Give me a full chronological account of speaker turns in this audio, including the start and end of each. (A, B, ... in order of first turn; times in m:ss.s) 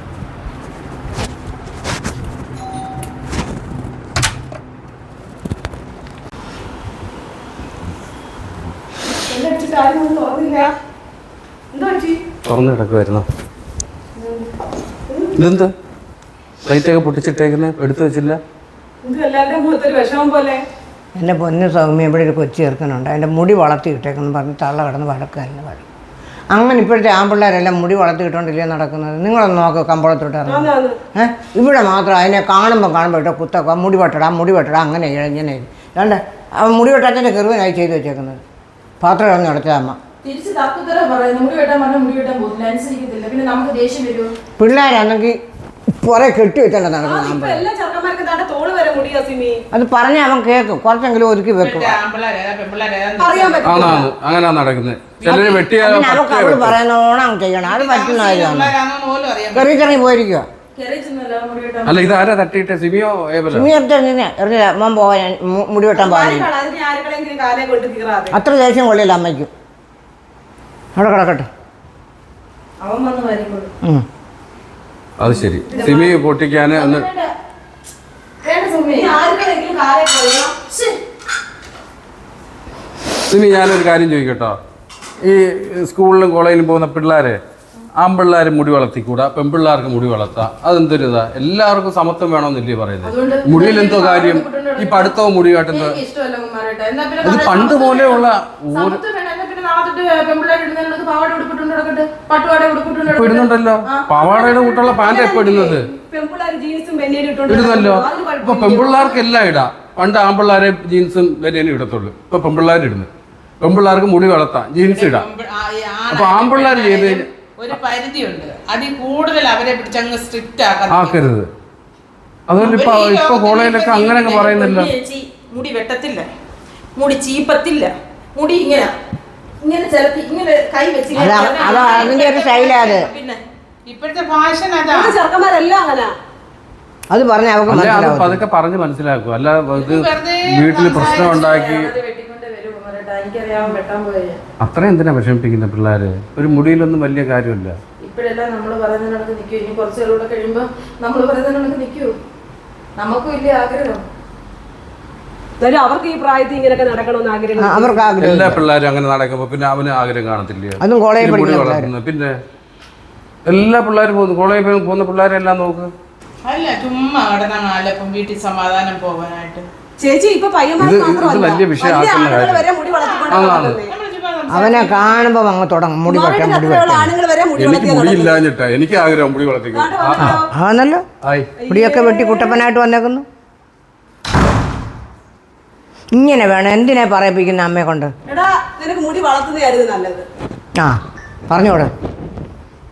0:09.3-0:10.8 A
0:11.7-0:12.2 A
0:12.5-0:13.3 B
0:14.2-0:14.5 A
0:15.1-0:15.4 A
0:15.4-0:15.7 B
0:16.7-0:18.4 B
0:19.0-0:20.6 A
0:21.2-0:25.8 C
0:26.5-0:38.4 C
0:30.5-0:31.0 A
0:39.0-0:40.0 C
0:40.2-0:44.3 D
0:44.6-0:45.4 C
0:46.0-0:47.7 C
0:47.0-0:49.6 A
0:49.7-0:52.0 C
0:51.6-0:54.0 E
0:53.2-0:54.1 A
0:53.6-0:56.8 B
0:55.2-0:58.7 C
0:57.6-0:59.9 E
0:59.5-1:00.5 C
1:00.8-1:02.1 D
1:01.9-1:03.7 B
1:03.5-1:06.5 C
1:05.9-1:08.4 A
1:08.3-1:09.5 C
1:11.0-1:11.5 C
1:12.8-1:13.7 D
1:15.2-1:17.1 B
1:15.7-1:16.0 A
1:15.7-1:17.3 D
1:18.4-1:19.4 D
1:18.9-1:20.6 A
1:20.7-1:21.0 D
1:23.3-1:24.6 B
1:25.2-1:27.4 B
1:28.0-1:36.0 B
1:33.0-1:35.2 D
1:35.7-1:45.2 D
1:37.2-1:39.0 B
1:43.1-1:45.9 B
1:44.7-1:49.2 A
1:47.5-1:53.1 B
1:53.6-1:55.2 B
1:54.8-2:01.2 E
1:56.1-1:57.2 B
2:00.9-2:01.5 B
2:02.5-2:04.9 B
2:02.6-2:04.5 E
2:04.2-2:06.3 D
2:07.0-2:08.9 D
2:09.6-2:13.4 D
2:11.2-2:13.1 C
2:11.2-2:12.2 A
2:13.9-2:15.2 E
2:14.9-2:16.1 A
2:17.1-2:18.4 C
2:17.7-2:21.9 B
2:19.8-2:21.4 E
2:21.0-2:24.4 D
2:24.6-2:27.8 B
2:28.0-2:32.2 D
2:33.0-2:34.0 D
2:35.6-2:38.1 A
2:37.6-2:38.6 C
2:38.2-2:42.4 B
2:40.8-2:41.9 C
2:43.5-2:45.9 B
2:46.5-2:49.7 E
2:50.0-2:53.9 A
2:50.8-2:52.7 B
2:52.8-2:55.3 E
2:53.3-2:53.8 B
2:54.5-2:57.2 C
2:56.1-2:58.4 A
2:57.6-3:00.4 B
2:59.7-3:00.5 A
3:00.2-3:01.0 C
3:01.2-3:01.5 B
3:01.6-3:02.6 A
3:01.7-3:03.3 C
3:06.1-3:08.1 C
3:08.3-3:10.2 A
3:10.8-3:11.9 C